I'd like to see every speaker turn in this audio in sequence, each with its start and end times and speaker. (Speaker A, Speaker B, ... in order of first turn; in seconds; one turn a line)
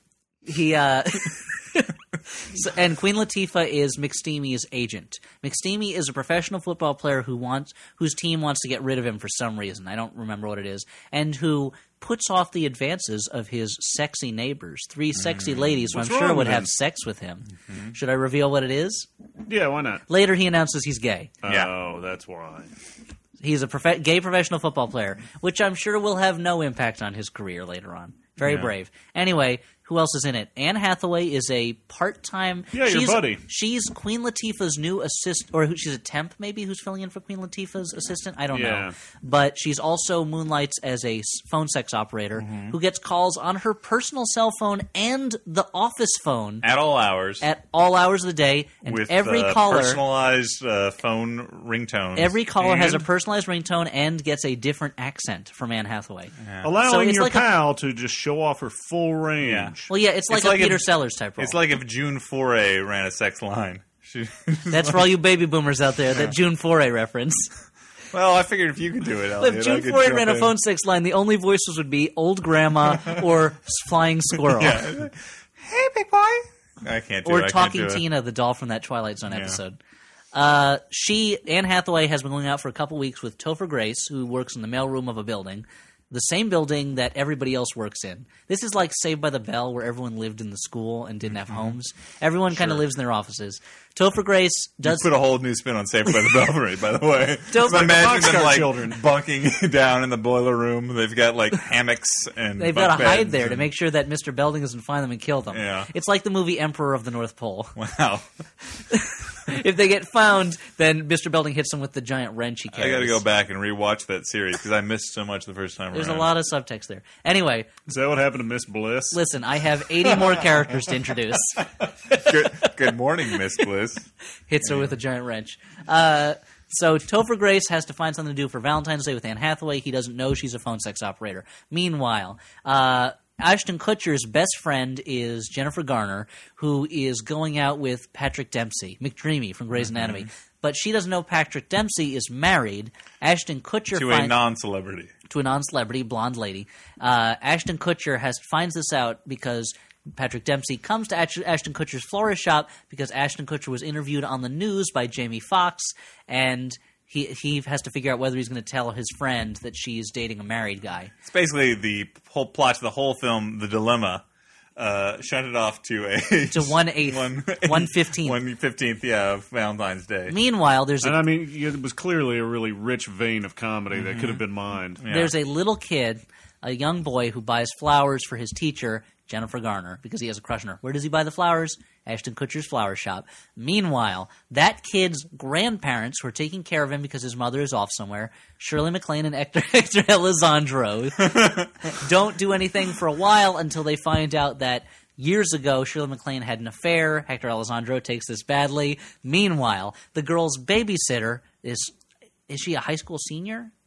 Speaker A: 0.4-19.1
Speaker B: 15.2-15.8
Speaker C: 15.9-16.7
Speaker C: 19.5-20.0
Speaker A: 20.1-21.3
Speaker C: 21.4-22.7
Speaker B: 21.5-21.7
Speaker A: 23.4-46.6
Speaker B: 28.4-28.7
Speaker C: 32.7-33.4
Speaker C: 38.5-38.9
Speaker B: 42.4-42.8
Speaker B: 46.6-47.5
Speaker A: 47.4-50.0
Speaker B: 48.9-52.9
Speaker A: 52.2-57.5
Speaker B: 56.4-56.7
Speaker C: 56.6-59.9
Speaker B: 59.4-59.8
Speaker A: 59.9-61.6
Speaker B: 60.3-60.9
Speaker B: 61.4-65.1
Speaker A: 64.7-67.5
Speaker B: 68.1-70.5
Speaker A: 69.4-74.9
Speaker B: 74.5-78.0
Speaker A: 77.2-79.8
Speaker B: 79.3-79.6
Speaker A: 80.3-95.1
Speaker B: 91.5-91.7
Speaker B: 94.8-103.7
Speaker A: 97.5-98.0
Speaker C: 97.6-99.0
Speaker A: 102.6-107.8
Speaker B: 105.5-105.9
Speaker B: 107.8-108.3
Speaker A: 108.8-113.2
Speaker B: 112.7-116.3
Speaker A: 115.9-117.7
Speaker C: 117.9-119.2
Speaker A: 119.1-122.7
Speaker B: 122.1-124.1
Speaker A: 124.5-144.4
Speaker B: 124.6-124.9
Speaker B: 139.8-140.3
Speaker B: 143.9-145.1
Speaker A: 145.3-161.1
Speaker B: 161.2-164.2
Speaker B: 164.8-170.3
Speaker A: 166.5-168.4
Speaker A: 170.3-171.2
Speaker C: 171.0-175.0
Speaker B: 173.9-174.4
Speaker B: 175.0-175.3
Speaker A: 175.1-201.9
Speaker B: 191.3-191.7
Speaker A: 202.5-203.7